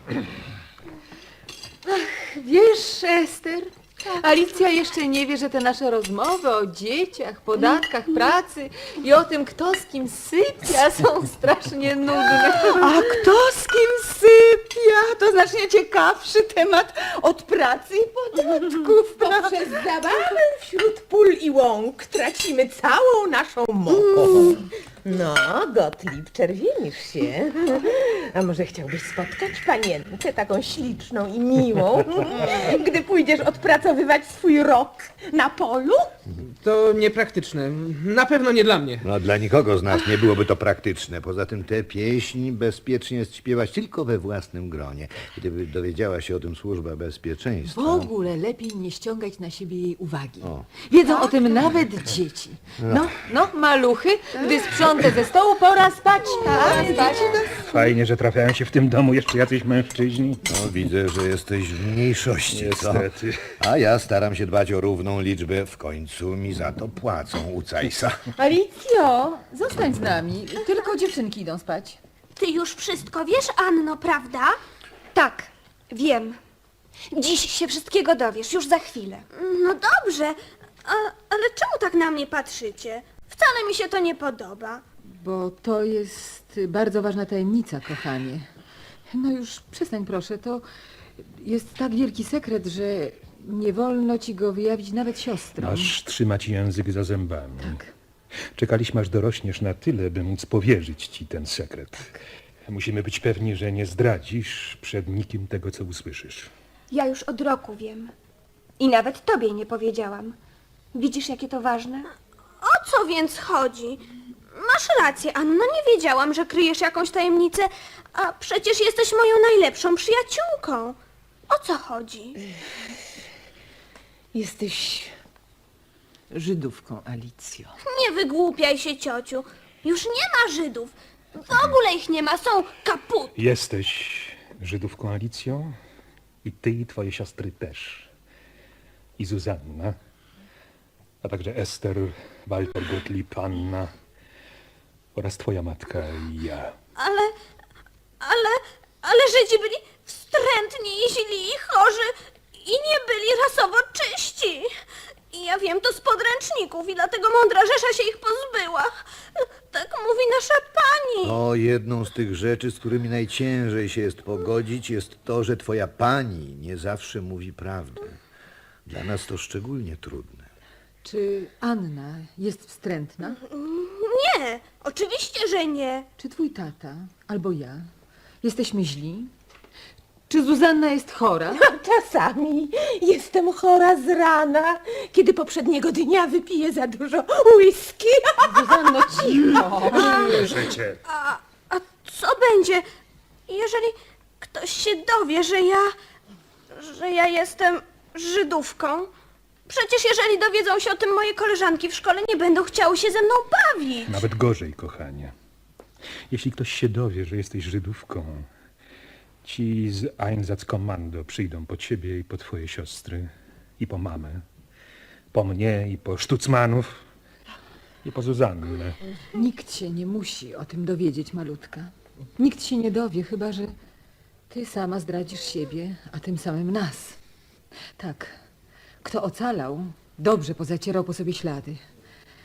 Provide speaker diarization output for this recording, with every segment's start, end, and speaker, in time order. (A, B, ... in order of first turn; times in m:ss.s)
0:01.8-0:13.0 A
0:12.8-0:19.5 B
0:18.4-0:36.2 C
0:36.6-0:39.0 D
0:39.0-0:48.1 E
0:47.7-0:57.6 A
0:52.8-0:53.1 E
0:56.4-0:57.6 C
0:57.6-1:00.5 F
1:00.5-1:08.2 E
1:02.5-1:03.6 F
1:08.4-1:12.0 A
1:12.4-1:14.6 G
1:15.1-1:16.4 H
1:17.1-1:19.2 H
1:19.4-1:24.8 G
1:25.2-1:28.5 A
1:29.1-1:30.6 A
1:31.2-1:36.0 A
1:35.6-1:37.8 F
1:37.6-1:37.9 A
1:38.6-1:42.1 F
1:42.7-1:46.5 F
1:46.9-1:48.1 H
1:48.8-1:50.4 H
1:50.9-1:52.1 H
1:52.6-1:54.0 G
1:54.6-2:01.0 G
2:01.5-2:02.4 G
2:04.4-2:04.8 A
2:04.5-2:05.1 C
2:06.3-2:07.7 A
2:07.8-2:13.3 G
2:13.4-2:15.8 F
2:16.4-2:18.1 F
2:19.2-2:20.0 F
2:21.2-2:23.9 F
2:25.2-2:26.8 F
2:27.0-2:27.3 G
2:28.2-2:34.7 G
2:35.3-2:41.4 G
2:41.2-2:48.2 E
2:48.8-2:50.5 E
2:51.0-2:53.4 A
2:53.4-2:56.1 G
2:56.2-2:57.9 A
2:58.4-2:59.3 A
3:00.3-3:01.6 A
3:01.6-3:10.3 C
3:08.5-3:10.5 A
3:10.1-3:11.0 F
3:11.1-3:12.8 G
3:13.5-3:16.0 G
3:16.7-3:19.1 G
3:19.7-3:24.2 G
3:24.1-3:25.3 F
3:26.3-3:28.5 F
3:29.4-3:34.4 F
3:35.3-3:37.1 F
3:38.0-3:39.0 F
3:39.3-3:43.7 A
3:44.5-3:47.2 A
3:48.0-3:48.4 A
3:49.0-3:51.8 A